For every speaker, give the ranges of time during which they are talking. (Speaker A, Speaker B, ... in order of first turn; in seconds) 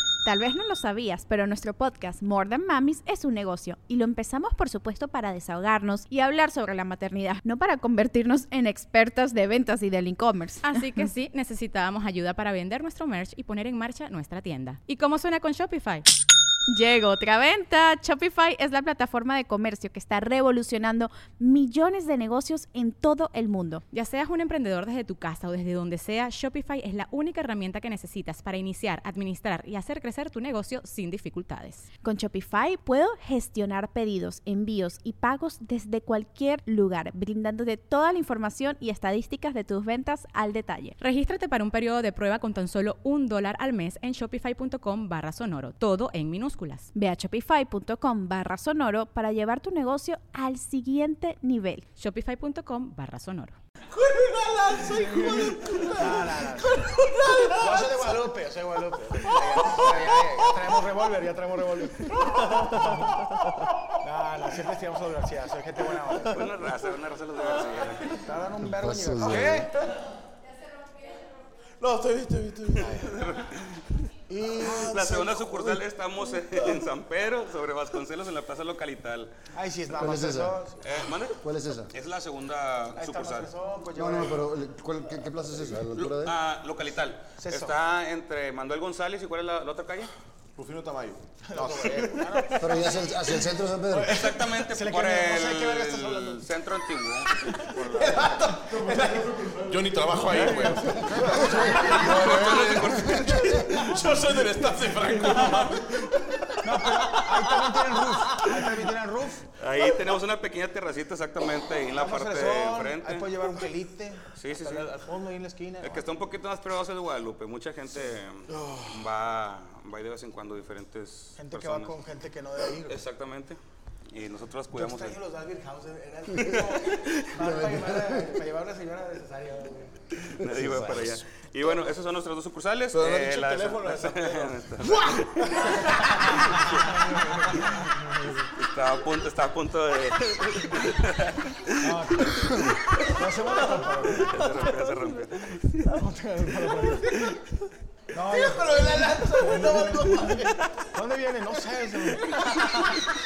Speaker A: 0.2-11.0, 16.7-23.8, 32.0-41.0, 46.9-51.8
Speaker B: 10.6-16.0, 23.9-31.9, 41.0-46.9, 52.0-53.5
Speaker C: 53.9-58.2, 59.1-60.9, 62.0-63.9, 69.2-70.0, 71.8-72.9, 74.6-76.9, 90.5-92.4, 97.7-107.6, 132.9-136.0, 148.1-150.7, 151.5-153.1
Speaker D: 55.0-56.7, 57.6-61.9, 64.0-66.7, 68.2-69.6, 72.7-73.1, 74.3-75.3, 79.5-80.8, 82.9-84.5, 87.4-87.8, 91.4-93.4, 93.9-96.5, 100.2-102.1, 105.3-105.7, 106.6-109.4, 111.9-116.1, 118.5-119.0, 121.3-123.0, 124.7-129.9, 136.3-137.4, 141.8-144.6, 145.9-147.1, 148.1-150.4, 150.9-152.9
Speaker E: 66.2-68.2, 72.9-74.0, 74.7-79.3, 80.8-83.5, 85.9-90.1, 94.1-97.5, 100.3-100.7, 101.8-104.2, 109.6-113.3, 114.3-115.0, 115.8-122.0, 122.9-123.6, 124.1-125.2, 126.4-127.2, 130.1-137.8, 138.4-146.0
Speaker F: 68.8-69.7, 80.0-80.6, 81.4-81.9, 84.0-86.4, 92.6-94.3, 101.1-101.8, 103.0-103.7, 127.4-128.3, 130.4-131.2